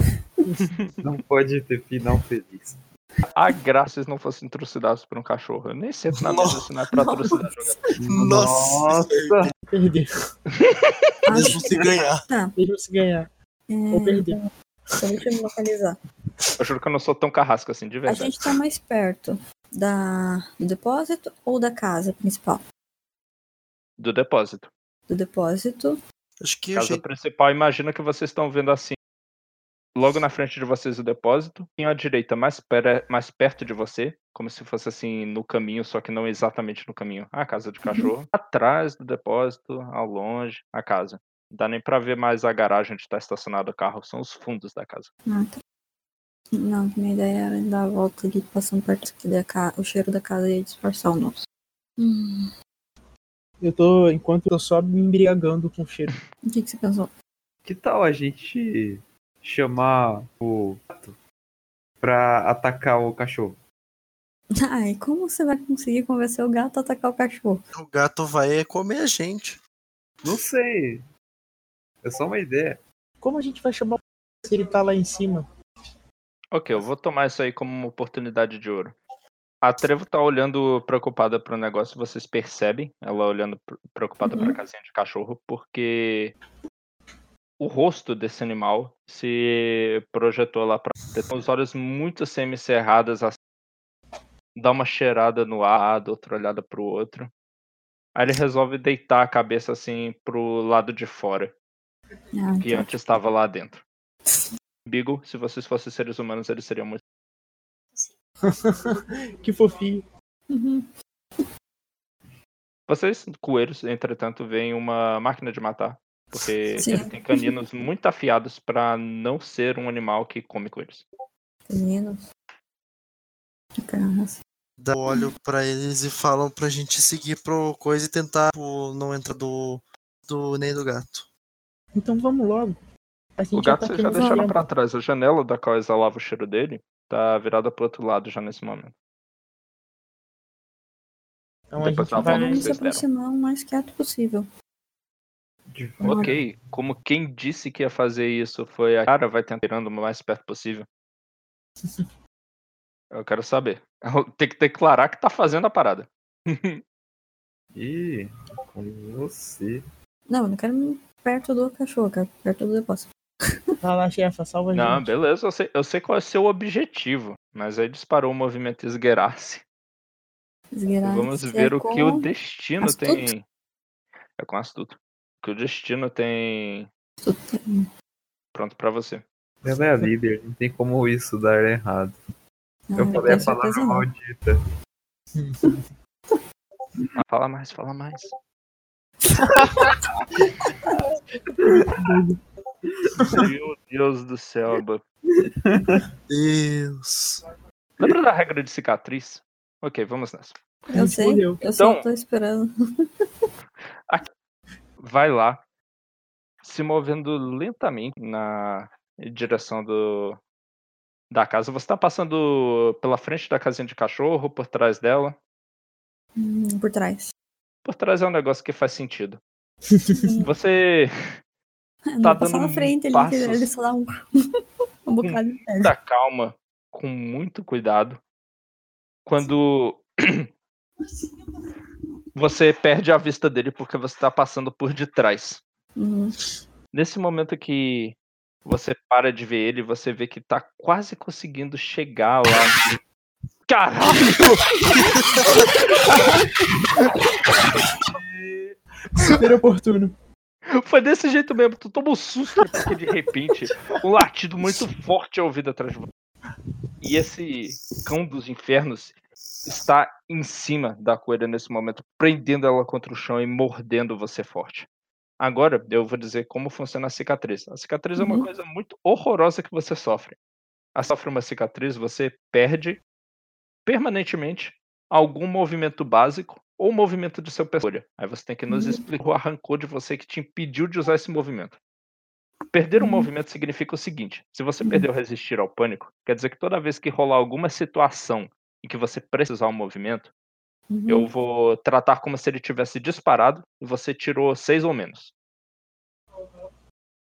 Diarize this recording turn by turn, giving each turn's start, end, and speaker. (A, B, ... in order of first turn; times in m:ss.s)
0:00.6-0:00.9 A
0:01.0-0:02.8 B
0:03.3-0:07.8 A
0:06.2-0:06.6 C
0:06.9-0:07.9 D
0:08.0-0:09.5 B
0:08.1-0:09.5 C
0:09.7-0:10.3 E
0:11.3-0:12.5 D
0:11.3-0:12.2 C
0:12.6-0:13.3 E
0:13.7-0:16.0 D
0:13.9-0:14.4 E
0:16.6-0:18.4 A
0:18.1-0:22.6 D
0:24.0-0:24.7 A
0:25.1-0:26.0 D
0:26.4-0:27.0 C
0:26.7-0:29.0 A
0:30.0-0:45.1 A
0:37.8-0:38.1 D
0:45.3-0:45.6 D
0:46.5-0:51.4 D
0:52.0-0:52.5 D
0:53.6-0:56.2 E
0:56.5-0:57.1 D
0:57.6-1:01.2 B
1:02.0-1:03.6 B
1:04.6-1:07.6 D
1:07.7-1:09.6 C
1:10.2-1:11.0 B
1:12.0-1:12.8 B
1:13.2-1:15.4 E
1:16.5-1:19.0 A
1:19.6-1:26.4 A
1:24.2-1:24.6 D
1:27.6-1:33.4 A
1:34.6-1:37.3 A
1:38.1-1:41.5 A
1:42.4-1:42.9 D
1:42.6-1:43.8 A
1:44.9-1:47.0 A
1:48.4-1:50.0 E
1:50.5-1:50.9 D
1:52.9-2:01.0 A
1:56.8-1:57.5 D
2:01.7-2:02.3 D
2:03.8-2:04.4 D
2:04.8-2:11.3 C
2:11.9-2:12.8 E
2:13.4-2:14.6 E
2:13.5-2:18.9 A
2:14.1-2:14.5 D
2:21.7-2:22.7 E
2:21.8-2:23.0 A
2:22.1-2:24.4 D
2:25.7-2:26.5 B
2:26.0-2:26.4 D
2:26.0-2:30.8 A
2:33.1-2:36.8 A
2:37.7-2:39.8 B
2:40.3-2:43.8 D
2:43.8-2:45.1 E
2:44.7-2:49.6 A
2:50.7-2:52.3 D
2:51.0-2:53.4 A
2:52.8-2:53.3 D
2:54.4-2:56.9 A
2:57.2-2:57.9 D
2:58.5-2:59.2 A
2:59.6-3:02.2 B
3:02.9-3:04.1 D
3:03.0-3:04.6 B
3:05.4-3:05.8 E
3:07.2-3:08.3 A
3:11.6-3:12.2 B
3:11.9-3:12.4 E
3:13.2-3:13.5 E
3:13.3-3:15.0 A
3:15.4-3:16.0 B
3:16.3-3:17.4 C
3:18.0-3:20.6 A
3:20.9-3:22.7 D
3:20.9-3:21.6 E
3:21.8-3:22.0 A
3:25.0-3:25.6 A
3:26.6-3:30.4 A
3:31.3-3:35.4 A
3:36.4-3:37.3 D
3:37.8-3:39.4 A
3:39.9-3:40.2 E
3:40.1-3:40.5 D
3:40.4-3:41.1 A
3:42.1-3:44.2 D
3:42.2-3:43.7 A
3:45.1-3:45.9 D
3:45.2-3:48.2 A
3:49.3-3:50.5 A
3:52.4-3:55.6 A
3:56.0-3:56.4 D
3:56.9-3:58.1 A
3:58.6-4:02.9 A
4:03.7-4:05.5 A
4:08.0-4:08.8 B
4:09.2-4:10.1 E
4:10.7-4:16.1 A
4:17.0-4:24.9 A
4:25.4-4:30.4 A
4:28.2-4:28.4 D
4:30.9-4:33.0 A
4:33.8-4:41.8 A
4:38.7-4:39.0 D
4:42.7-4:50.3 A
4:43.0-4:43.3 D
4:50.9-4:51.3 D
4:51.1-4:55.3 A